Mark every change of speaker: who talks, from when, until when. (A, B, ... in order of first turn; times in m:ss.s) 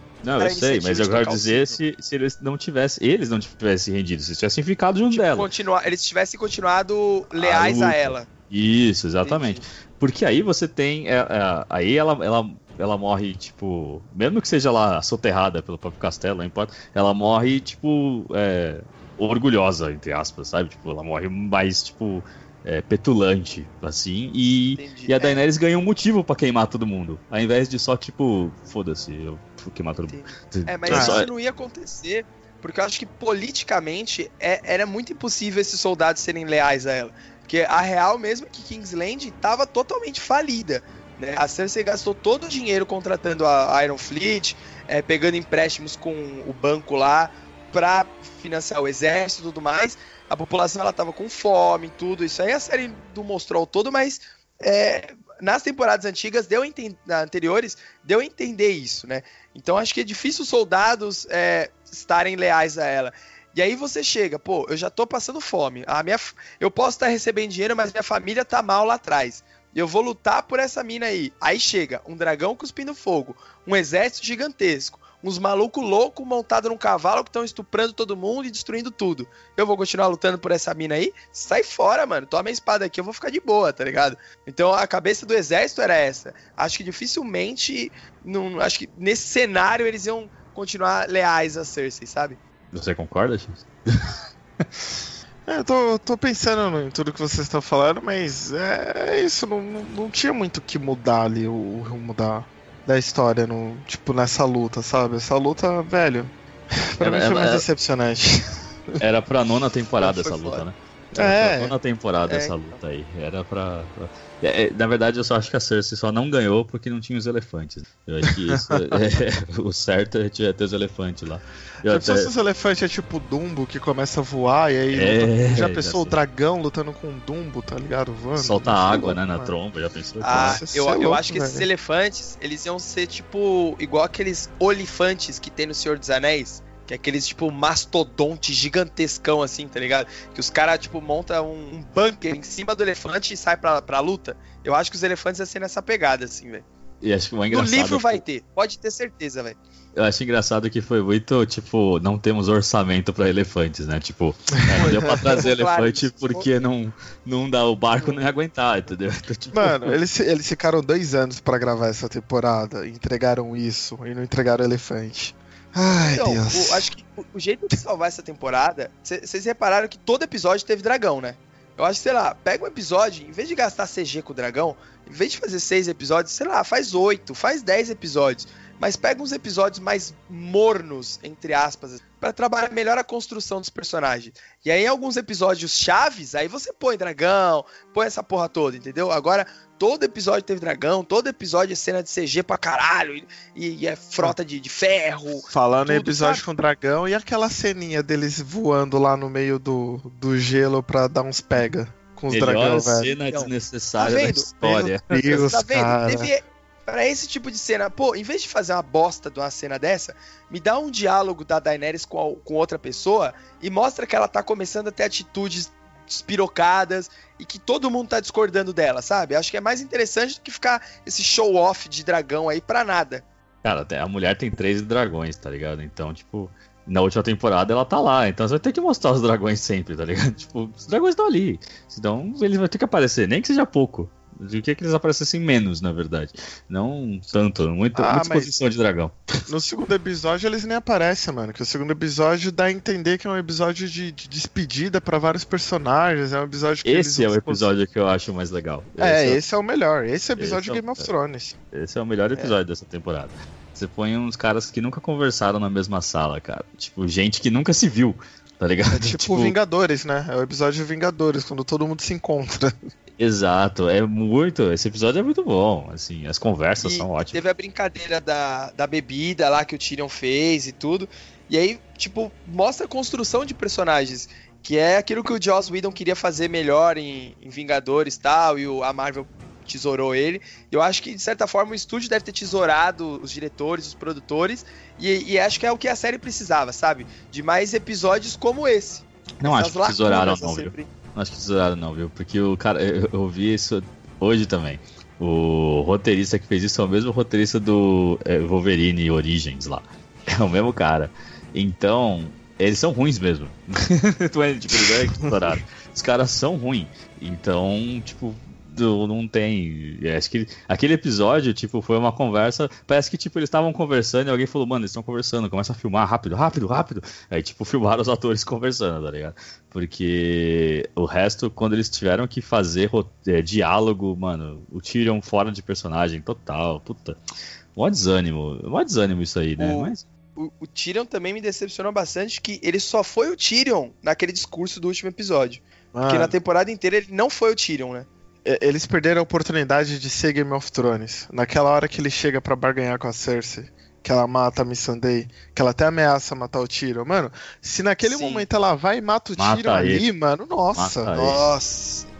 0:00.2-0:05.5 A
0:00.4-0:01.8 B
0:05.1-0:08.3 B
0:07.4-0:31.3 A
0:09.2-0:09.7 B
0:24.8-0:25.4 B
0:30.1-1:32.4 B
0:30.9-0:31.2 C
1:32.7-1:34.1 A
1:35.5-1:49.0 C
1:47.0-1:47.6 A
1:49.0-2:02.3 A
1:50.0-1:50.7 B
1:51.1-1:51.8 C
1:52.3-1:52.8 B
1:58.5-1:59.0 C
2:01.9-2:09.5 C
2:04.9-2:06.2 A
2:08.4-2:10.6 A
2:10.2-2:26.7 B
2:10.3-2:11.7 C
2:27.0-2:28.2 A
2:27.5-2:29.6 B
2:30.0-2:40.0 A
2:34.7-2:36.5 B
2:38.0-2:38.3 B
2:39.5-2:46.9 C
2:46.0-3:16.4 B
3:15.5-3:23.1 C
3:22.3-3:25.5 A
3:23.3-3:24.5 B
3:24.6-3:26.3 C
3:25.3-3:43.2 B
3:43.6-3:59.2 A
3:58.0-3:58.6 C
3:59.5-4:07.7 C
4:06.8-4:09.4 A
4:09.0-4:11.6 C
4:10.4-4:11.0 A
4:11.7-4:19.6 A
4:18.9-4:22.7 C
4:23.2-4:27.4 A
4:26.8-4:50.9 B
4:49.4-5:27.2 A
5:27.8-5:30.0 A
5:29.6-5:38.1 B
5:35.9-5:36.3 C
5:38.4-5:51.2 C
5:48.0-5:48.5 B
5:49.4-5:50.1 A
5:50.8-5:51.4 A
5:51.1-5:52.1 B